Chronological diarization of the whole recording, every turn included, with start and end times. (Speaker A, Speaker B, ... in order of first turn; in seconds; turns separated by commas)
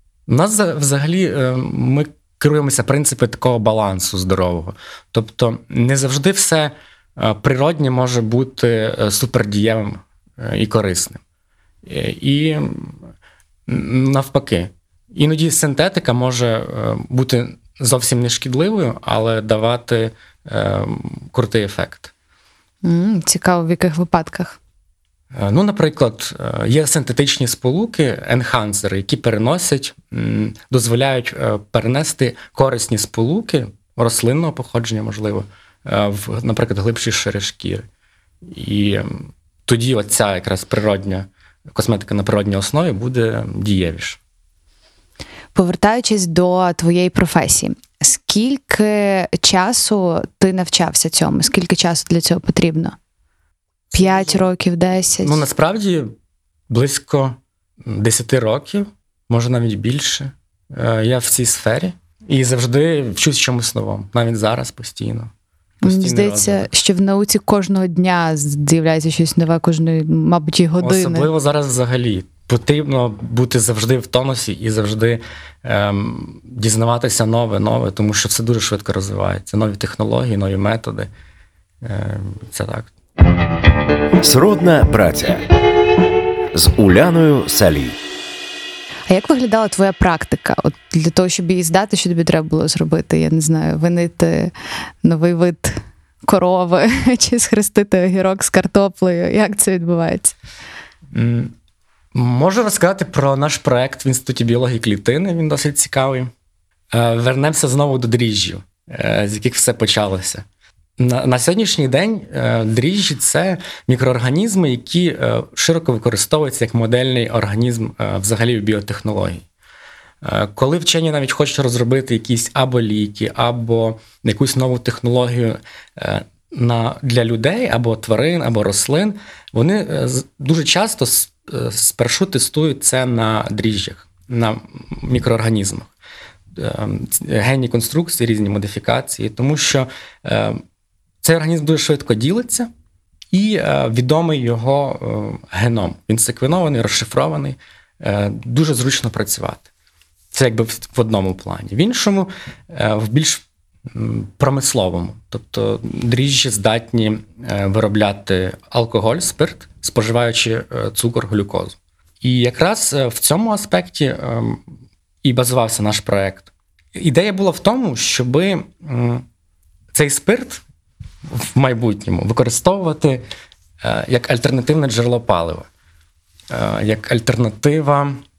Speaker A: 0.3-11.2, Speaker A: 11.8-12.9, Speaker A: 13.7-22.1, Speaker B: 22.8-24.6, Speaker A: 25.3-37.9, Speaker A: 38.5-44.2, Speaker B: 45.5-53.0, Speaker A: 53.9-54.4, Speaker B: 53.9-55.4, Speaker A: 55.2-56.1, Speaker A: 56.7-65.3, Speaker A: 65.8-66.7, Speaker B: 65.8-71.3, Speaker A: 70.8-81.1, Speaker A: 81.8-82.9, Speaker C: 84.2-85.4, Speaker C: 86.5-88.0, Speaker B: 89.1-94.5, Speaker B: 95.0-100.3, Speaker A: 101.1-101.5, Speaker A: 102.1-106.3, Speaker A: 106.9-110.4, Speaker A: 111.0-119.4, Speaker A: 120.2-135.9, Speaker A: 136.5-140.6, Speaker A: 141.2-142.7, Speaker A: 143.3-149.6, Speaker A: 150.3-164.6, Speaker A: 165.2-169.2, Speaker A: 169.9-170.6, Speaker A: 171.3-173.2, Speaker A: 173.8-175.7, Speaker A: 176.5-178.2